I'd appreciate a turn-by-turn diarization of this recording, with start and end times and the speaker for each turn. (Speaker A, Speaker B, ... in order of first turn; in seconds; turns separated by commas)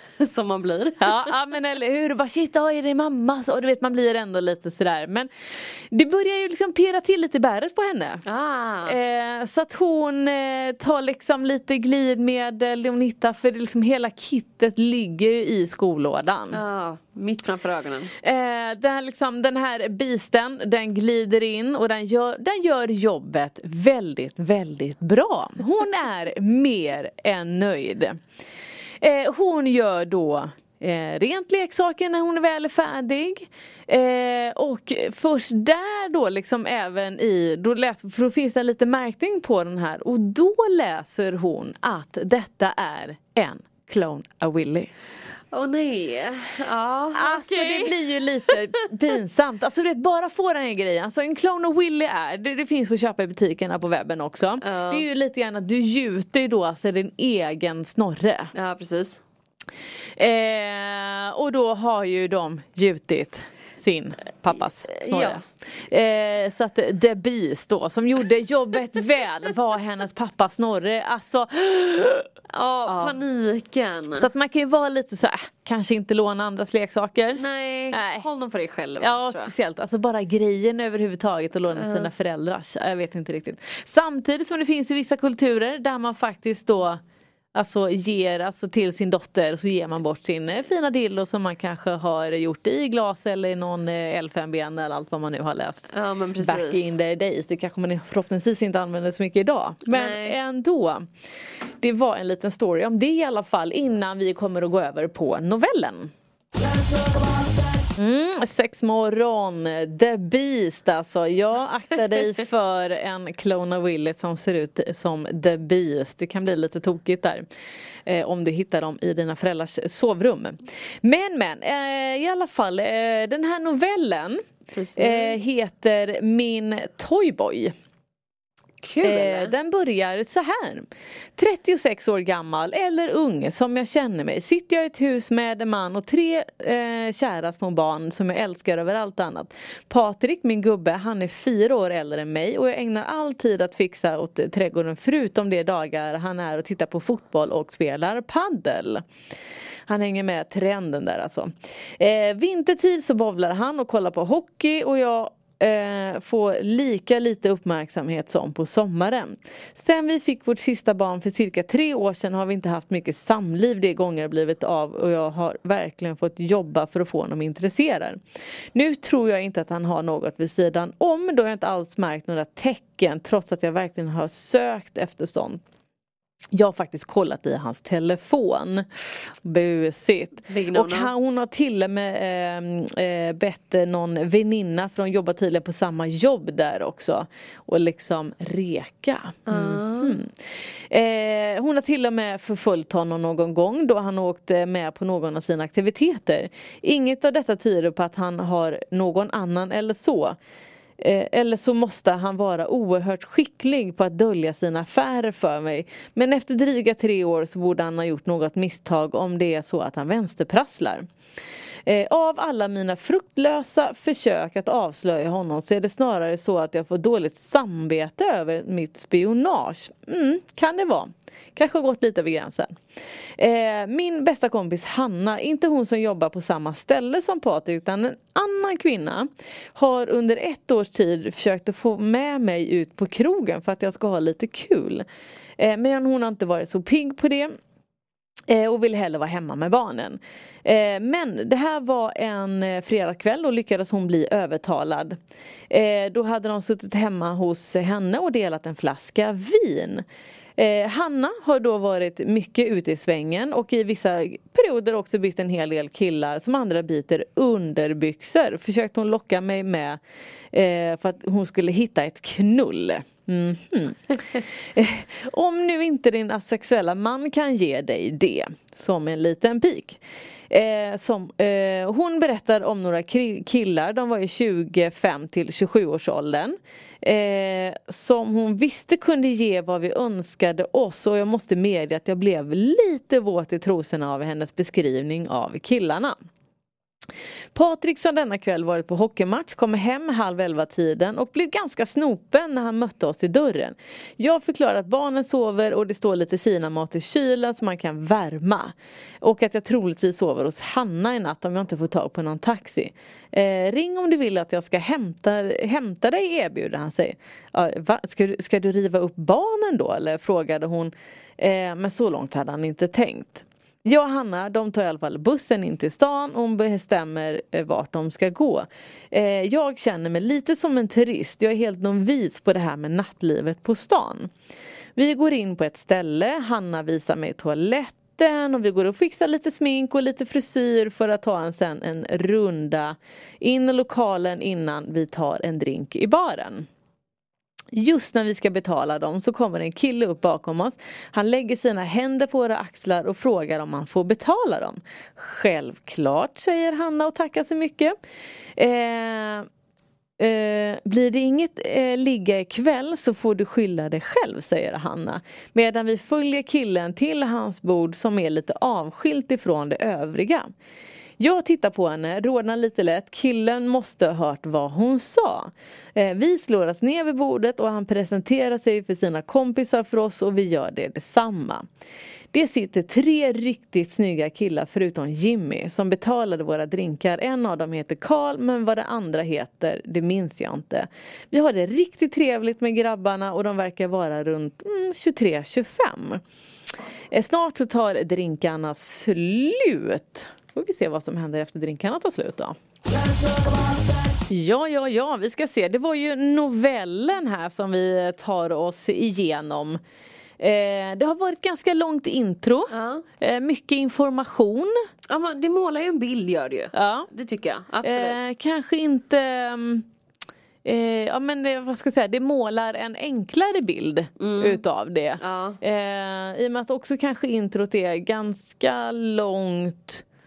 Speaker A: 0.2-1.2, Speaker B: 1.0-8.2, Speaker A: 8.2-9.0, Speaker B: 8.8-16.6, Speaker A: 16.5-18.1, Speaker B: 18.2-28.2, Speaker B: 29.0-44.9, Speaker A: 45.5-48.6, Speaker B: 47.1-58.5, Speaker A: 54.6-55.0, Speaker A: 58.5-59.2, Speaker B: 60.2-72.3, Speaker A: 64.9-65.4, Speaker A: 72.5-74.3, Speaker B: 72.8-73.2, Speaker B: 74.2-78.2, Speaker A: 77.3-79.5, Speaker B: 79.0-87.0, Speaker A: 81.7-82.1, Speaker B: 87.5-101.1, Speaker A: 95.9-96.9, Speaker A: 99.9-100.3, Speaker B: 101.8-106.1, Speaker B: 108.0-117.5, Speaker B: 118.0-124.4, Speaker A: 124.7-125.4, Speaker B: 125.0-127.7, Speaker A: 128.8-129.5, Speaker B: 129.0-149.0, Speaker B: 149.9-168.2, Speaker B: 168.7-175.6, Speaker B: 176.5-200.4, Speaker A: 180.5-181.1, Speaker A: 189.5-190.1, Speaker B: 201.0-211.1, Speaker B: 211.8-222.7, Speaker B: 223.4-235.0, Speaker B: 235.6-237.5, Speaker B: 238.5-245.2, Speaker B: 245.7-250.0, Speaker B: 250.6-260.0, Speaker B: 260.5-286.1, Speaker B: 287.5-324.3, Speaker B: 324.9-336.7, Speaker B: 337.7-347.9, Speaker B: 348.6-349.5, Speaker B: 350.2-360.5, Speaker B: 361.2-371.6, Speaker B: 372.3-386.2, Speaker B: 387.1-392.6, Speaker B: 394.3-399.8, Speaker B: 400.4-404.7, Speaker A: 402.7-403.0, Speaker A: 405.1-408.2, Speaker B: 406.7-407.1, Speaker B: 407.8-409.9, Speaker B: 410.6-420.0, Speaker A: 414.2-414.6, Speaker A: 415.2-415.6